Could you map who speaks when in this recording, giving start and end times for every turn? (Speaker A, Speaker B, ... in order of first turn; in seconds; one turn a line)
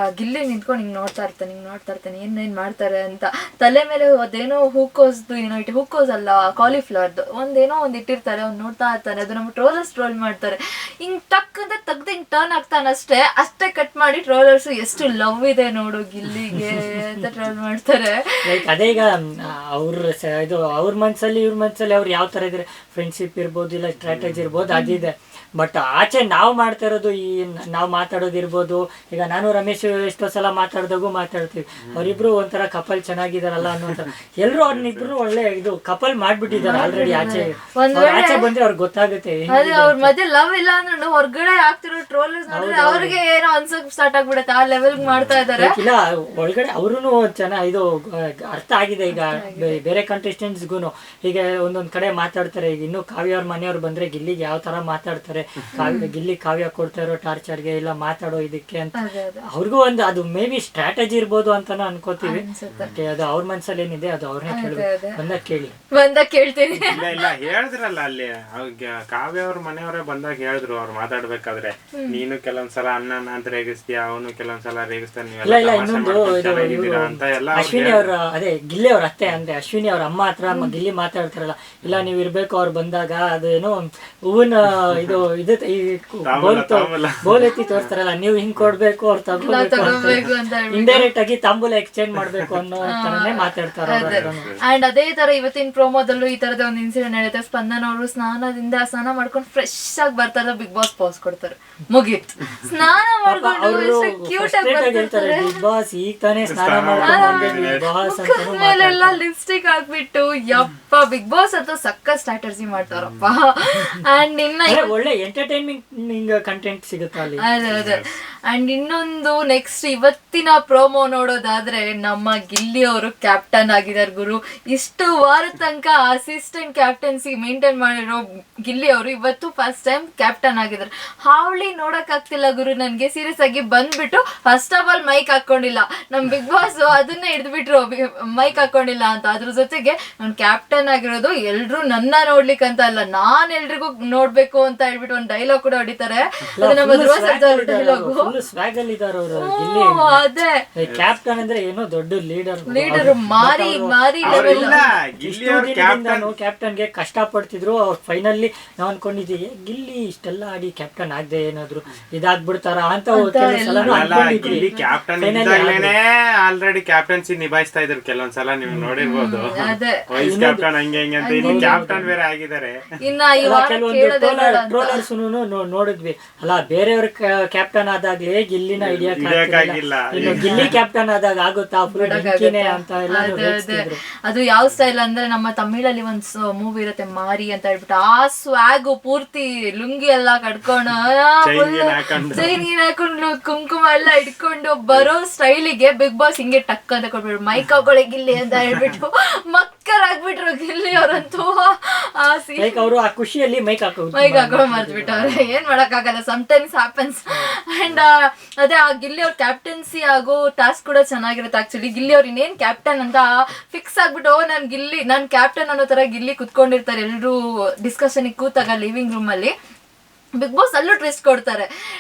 Speaker A: 0.2-18.4
Speaker B: 18.4-40.1
Speaker C: 24.0-24.6
Speaker A: 24.7-25.0
Speaker C: 31.9-32.2
Speaker C: 33.8-35.1
Speaker C: 36.5-37.2
Speaker A: 36.6-38.5
Speaker A: 39.5-45.8
Speaker B: 42.5-43.2
Speaker C: 45.0-45.3
Speaker B: 45.6-65.7
Speaker A: 49.1-49.8
Speaker A: 55.8-56.1
Speaker A: 58.9-59.5
Speaker A: 62.2-62.9
Speaker C: 62.7-63.0
Speaker A: 64.5-65.2
Speaker A: 65.9-67.2
Speaker C: 66.8-78.1
Speaker A: 71.9-72.2
Speaker B: 75.4-94.5
Speaker A: 80.5-80.8
Speaker C: 86.2-87.9
Speaker A: 87.4-87.7
Speaker A: 89.4-91.1
Speaker C: 89.8-90.3
Speaker A: 92.9-105.6
Speaker C: 93.9-94.6
Speaker B: 103.2-109.2
Speaker C: 106.4-107.8
Speaker A: 107.0-114.9
Speaker C: 112.9-113.3
Speaker B: 114.7-117.4
Speaker A: 117.4-148.3
Speaker C: 117.7-118.0
Speaker B: 146.6-150.2
Speaker A: 149.3-150.6
Speaker B: 150.8-164.6
Speaker A: 152.7-154.8
Speaker C: 152.9-153.2
Speaker C: 154.2-156.3
Speaker A: 163.1-164.9
Speaker C: 163.8-172.8
Speaker B: 165.2-165.9
Speaker B: 168.7-168.9
Speaker A: 169.0-170.0
Speaker B: 170.2-170.7
Speaker A: 171.2-172.1
Speaker B: 171.4-172.1
Speaker A: 173.0-175.0
Speaker B: 173.4-184.0
Speaker C: 178.8-180.7
Speaker A: 180.2-180.7
Speaker A: 181.9-202.8
Speaker C: 191.4-192.6
Speaker B: 202.6-205.4
Speaker A: 204.1-219.5
Speaker B: 207.3-207.5
Speaker A: 220.4-221.7